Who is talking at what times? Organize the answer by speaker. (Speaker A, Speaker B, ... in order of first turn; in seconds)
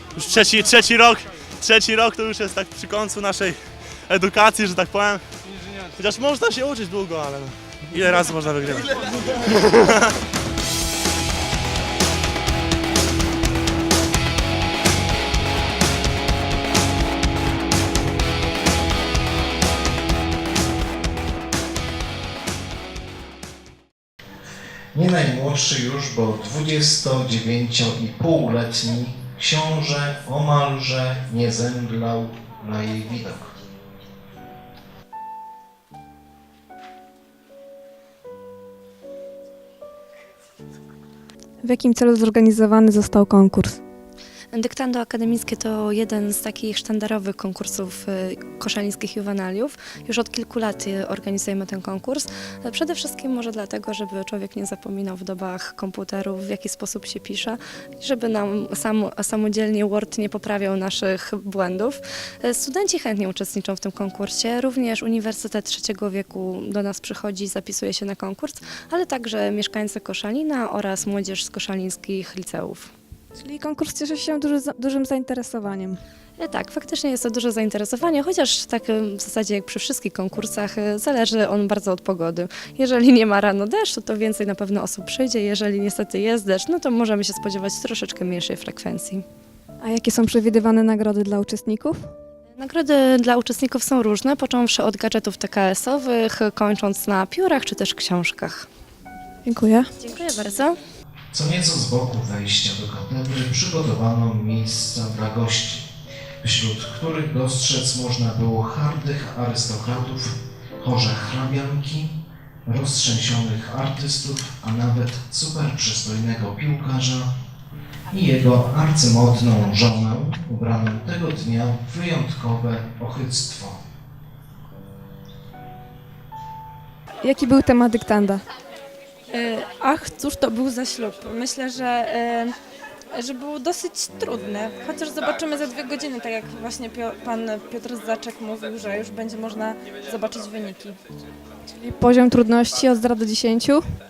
Speaker A: 0.1-5.2, 6.0-10.1
Speaker B: 24.9-33.6, 101.3-105.9, 106.4-112.1, 112.7-117.3, 118.1-123.8
Speaker C: 41.6-43.8, 73.4-76.0, 89.8-92.0, 99.5-99.9, 127.2-128.4, 141.8-143.8
Speaker D: 44.5-72.9, 76.4-89.2, 92.6-98.7, 100.0-100.8
Speaker E: 129.3-132.6, 133.1-141.0